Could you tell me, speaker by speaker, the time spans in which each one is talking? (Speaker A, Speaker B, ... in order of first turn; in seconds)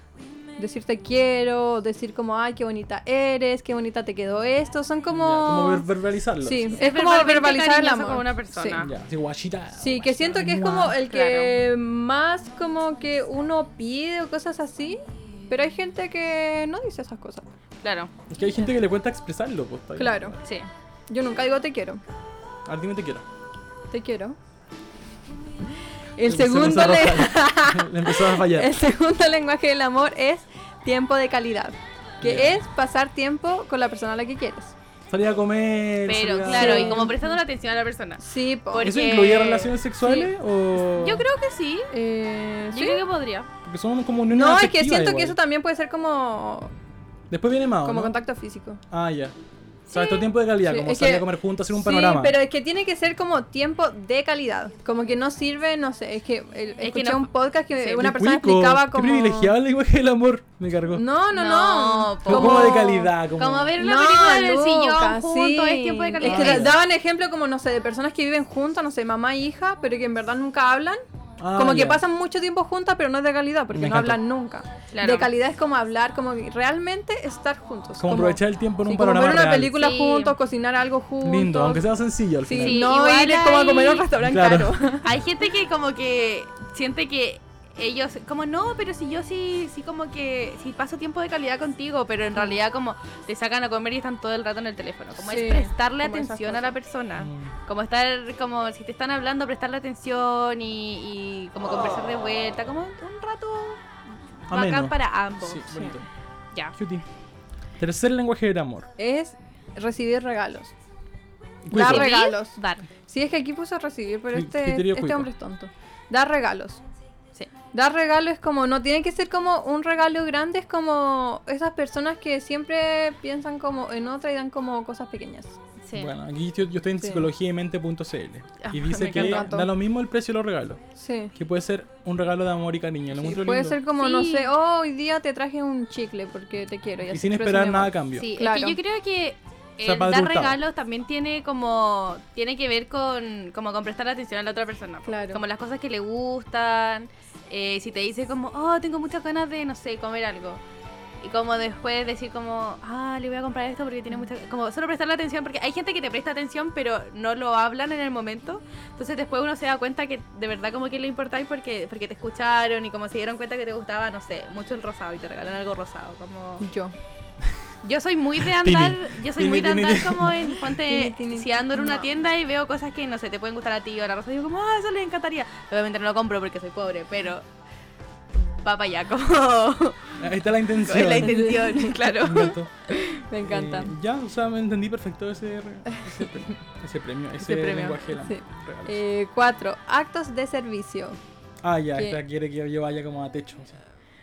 Speaker A: 0.6-5.9, 6.4-8.8, 9.8-17.5, 20.0-20.4, 21.1-22.0, 23.9-24.4, 26.2-34.8, 36.5-37.4, 38.2-38.9, 41.9-43.0, 44.3-46.7, 47.8-48.8, 50.6-59.5, 60.9-63.1, 63.8-71.0, 71.6-81.8, 82.5-85.1, 95.2-96.7, 109.0-110.7, 111.7-112.6, 113.1-116.8, 117.7-125.6, 127.0-127.3, 129.0-129.7, 130.9-131.3, 133.2-138.8, 145.1-145.4, 166.6-166.9, 170.7-172.1, 181.0-182.0, 183.2-183.9, 188.2-191.2
Speaker B: 5.1-6.8, 8.8-11.0, 18.3-20.4, 22.6-23.3, 26.2-28.7, 32.2-32.6, 35.1-37.1, 38.8-41.3, 43.6-45.4, 47.3-48.2, 48.9-49.4, 49.9-52.4, 58.0-61.1, 62.3-63.8, 66.2-66.8, 71.4-72.0, 73.7-74.2, 78.0-79.8, 81.2-82.9, 84.2-84.8, 97.2-97.5, 104.5-106.1, 106.8-107.1, 107.8-108.9, 111.7-112.1, 114.3-115.3, 125.9-130.8, 131.3-133.8, 137.1-138.3, 139.8-140.6, 168.4-170.4, 180.2-181.6, 182.1-182.7, 183.4-189.0, 191.6-193.8
Speaker C: 6.8-8.9, 11.0-11.5, 17.8-18.1, 36.1-38.2, 38.7-40.3, 40.9-41.9, 42.7-43.5, 49.9-50.3, 56.8-58.1, 61.3-66.7, 74.9-75.3, 79.7-80.4, 82.6-84.0, 85.0-103.8, 104.5-105.9, 111.8-112.9, 125.8-126.1, 128.6-129.5, 134.0-134.5, 138.2-150.6, 151.2-166.6, 167.8-177.4, 178.6-180.2, 180.8-183.2, 187.4-188.0